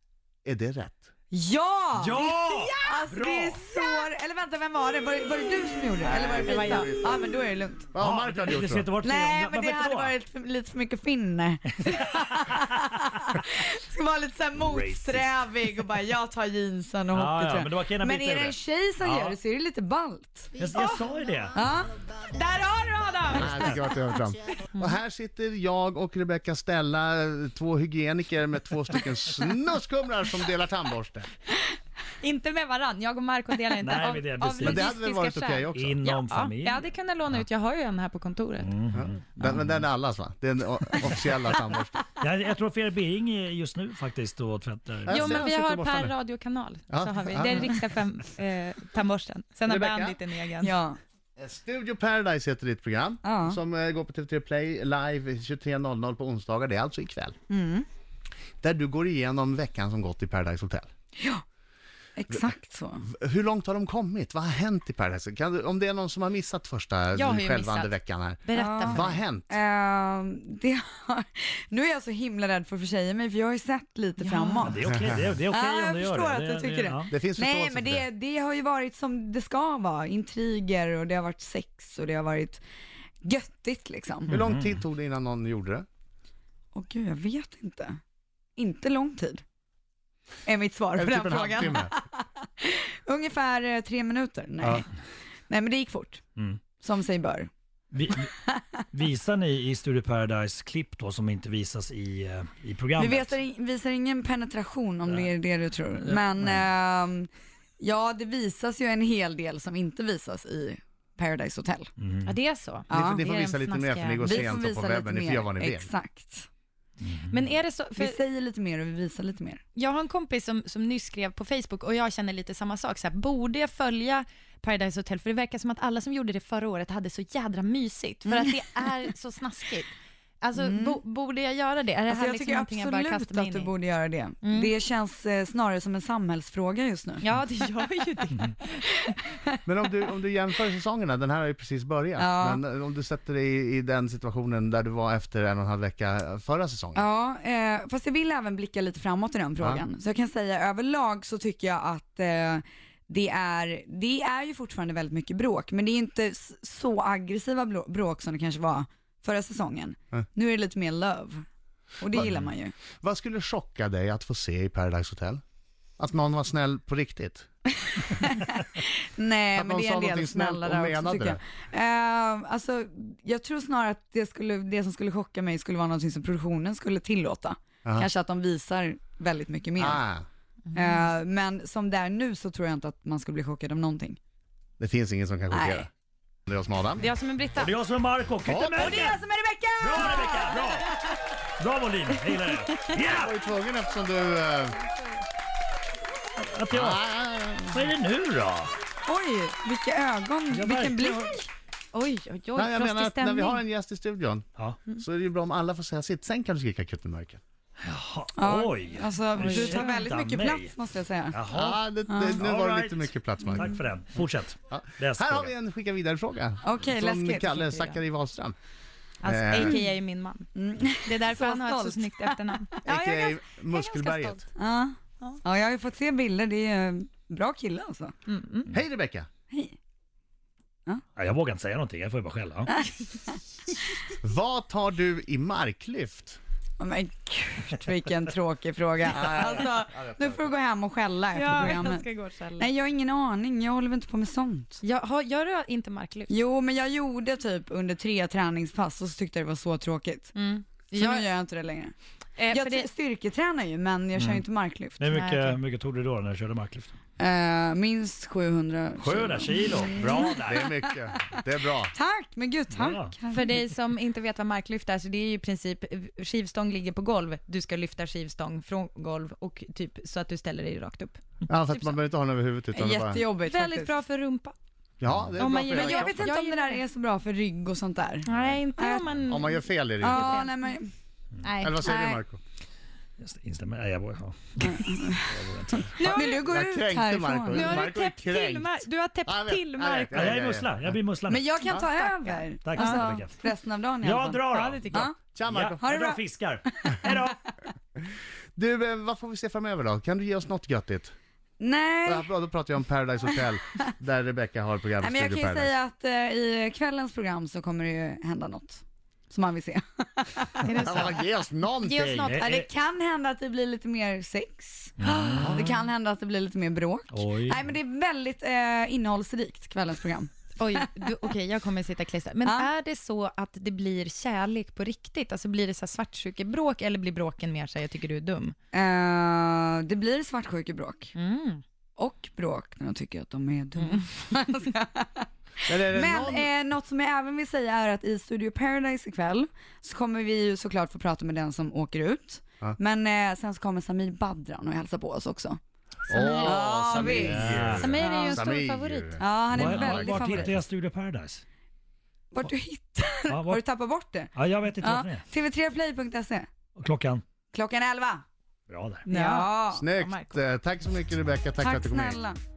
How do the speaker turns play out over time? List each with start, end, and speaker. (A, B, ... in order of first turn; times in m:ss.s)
0:00.4-0:01.1 A
0:01.3-0:07.9 B
0:02.0-0:03.7 C
0:06.0-0:07.1 A
0:06.3-0:06.9 D
0:07.9-0:08.9 A
0:08.0-0:10.2 C
0:09.0-0:20.5 B
0:11.8-0:12.8 C
0:14.6-0:15.5 C
0:17.1-0:19.4 C
0:20.6-0:21.6 C
0:20.7-0:21.1 D
0:21.5-0:21.9 B
0:22.2-0:23.8 D
0:23.3-0:31.3 A
0:23.5-0:23.8 C
0:32.2-0:38.7 D
0:33.8-0:34.9 C
0:34.6-0:36.0 A
0:35.7-0:36.9 C
0:38.6-0:39.8 C
0:38.9-0:42.0 A
0:42.2-0:45.5 C
0:45.0-0:46.1 A
0:45.1-0:50.8 D
0:46.9-0:47.7 A
0:49.6-0:50.2 A
0:50.6-0:51.0 B
0:51.4-0:57.4 A
0:53.2-0:53.6 B
0:57.5-0:57.8 B
0:58.6-1:00.9 A
1:02.2-1:03.0 B
1:03.0-1:09.5 A
1:07.1-1:07.9 D
1:08.4-1:09.2 D
1:08.5-1:14.8 B
1:14.2-1:14.8 D
1:14.6-1:17.1 C
1:15.5-1:22.6 B
1:17.1-1:18.0 A
1:23.2-1:24.3 B
1:24.3-1:25.8 A
1:24.3-1:24.8 C
1:26.7-1:28.0 B
1:28.6-1:29.4 B
1:30.4-1:34.9 B
1:31.0-1:31.9 A
1:34.6-1:34.8 C
1:35.5-1:36.2 B
1:36.4-1:36.6 C
1:36.7-1:37.5 B
1:37.9-1:38.3 C
1:38.9-1:43.4 C
1:43.0-1:51.9 B
1:46.1-1:46.6 C
1:52.0-1:52.3 C
1:52.2-1:54.6 D
1:52.9-1:53.2 B
1:52.9-1:55.9 A
1:54.2-1:56.5 B
1:57.0-1:57.3 C
1:57.3-1:58.2 D
1:58.0-1:59.6 B
1:59.8-2:13.7 D
2:08.2-2:08.6 B
2:10.6-2:11.0 B
2:12.1-2:17.2 B
2:14.4-2:14.7 D
2:17.2-2:19.2 D
2:19.6-2:27.0 A
2:22.2-2:22.6 B
2:26.9-2:41.4 B
2:42.0-2:42.7 B
2:42.1-2:42.4 A
2:43.0-2:45.4 A
2:46.0-2:47.5 A
2:48.2-3:00.0 B
2:49.5-2:51.4 A
2:59.8-3:00.2 A
3:00.7-3:01.0 D
3:00.7-3:04.2 B
3:04.8-3:05.9 A
3:05.5-3:05.8 B
3:06.5-3:07.1 A
3:07.0-3:07.8 D
3:07.6-3:09.2 C
3:08.4-3:09.1 A
3:08.7-3:10.9 B
3:09.8-3:10.9 C
3:11.6-3:13.3 C
3:12.7-3:13.0 D
3:13.0-3:14.7 A
3:16.4-3:17.0 C
3:16.7-3:17.9 A
3:17.7-3:18.7 C
3:19.0-3:21.5 B
3:20.5-3:21.3 C
3:21.9-3:23.6 D
3:22.6-3:24.4 A
3:25.0-3:27.4 A
3:27.8-3:30.7 C
3:28.3-3:31.4 B
3:31.3-3:35.5 C
3:31.5-3:33.7 A
3:32.1-3:32.5 B
3:34.7-3:38.6 A
3:36.6-3:37.8 B
3:39.2-3:40.5 D
3:39.2-3:39.8 A
3:40.5-3:42.8 B
3:41.0-3:44.4 D
3:42.8-3:44.4 A
3:44.5-3:48.1 B
3:48.3-3:48.7 D
3:48.7-3:49.3 A
3:49.5-3:49.7 B
3:51.1-3:52.8 C
3:54.2-3:56.4 A
3:56.8-4:02.0 B
3:59.0-4:00.5 A
4:01.3-4:02.7 D
4:02.6-4:04.8 B
4:04.8-4:06.3 D
4:06.3-4:10.3 B
4:10.3-4:11.3 D
4:10.9-4:11.9 B
4:12.4-4:12.9 D
4:12.5-4:15.0 B
4:14.2-4:14.4 C
4:15.0-4:16.9 C
4:15.1-4:15.6 D
4:17.2-4:21.4 B
4:19.0-4:20.7 C
4:20.4-4:21.9 A
4:21.9-4:23.5 B
4:22.7-4:23.1 C
4:23.3-4:32.0 D
4:31.5-4:33.2 A
4:32.7-4:33.9 B
4:33.1-4:34.5 D
4:35.0-4:36.3 A
4:35.1-4:35.6 C
4:35.4-4:36.8 D
4:35.7-4:39.0 B
4:38.2-4:40.8 D
4:38.3-4:38.6 C
4:39.2-4:40.4 A
4:40.0-4:40.9 B
4:41.4-4:41.9 D
4:41.6-4:42.4 A
4:41.8-4:42.2 B
4:43.2-4:45.9 C
4:44.6-4:45.3 B
4:46.0-4:50.7 A
4:46.0-4:46.5 D
4:46.0-4:47.8 B
4:47.5-4:50.3 D
4:50.1-4:51.6 C
4:51.3-4:55.1 B
4:51.8-4:53.1 D
4:52.6-4:57.4 C
4:54.5-4:55.1 D
4:55.3-4:55.8 A
4:55.8-4:57.5 B
4:58.6-5:01.1 A
5:01.6-5:02.3 B
5:02.0-5:05.7 A
5:05.0-5:10.9 B
5:10.6-5:11.2 D
5:10.8-5:12.3 A
5:11.8-5:12.4 D
5:11.9-5:12.7 C
5:12.3-5:20.9 B
5:15.0-5:15.9 C
5:15.4-5:15.7 A
5:17.1-5:17.7 C
5:20.6-5:28.5 D
5:22.4-5:22.7 B
5:28.7-5:31.1 B
5:31.1-5:31.6 D
5:32.0-5:45.6 B
5:33.8-5:34.0 D
5:35.6-5:36.5 A
5:46.1-5:50.6 A
5:46.1-5:46.4 D
5:46.3-5:47.5 B
5:46.9-5:48.1 C
5:47.6-5:49.2 D
5:48.0-5:48.4 B
5:49.2-5:50.5 B
5:49.5-5:51.4 C
5:52.3-5:56.5 B
5:53.3-5:53.6 C
5:54.3-5:55.2 C
5:56.8-5:57.2 C
5:57.5-5:58.2 B
5:58.7-5:59.1 C
5:59.0-6:00.4 D
5:59.1-5:59.9 B
5:59.7-6:02.2 A
6:01.6-6:02.4 B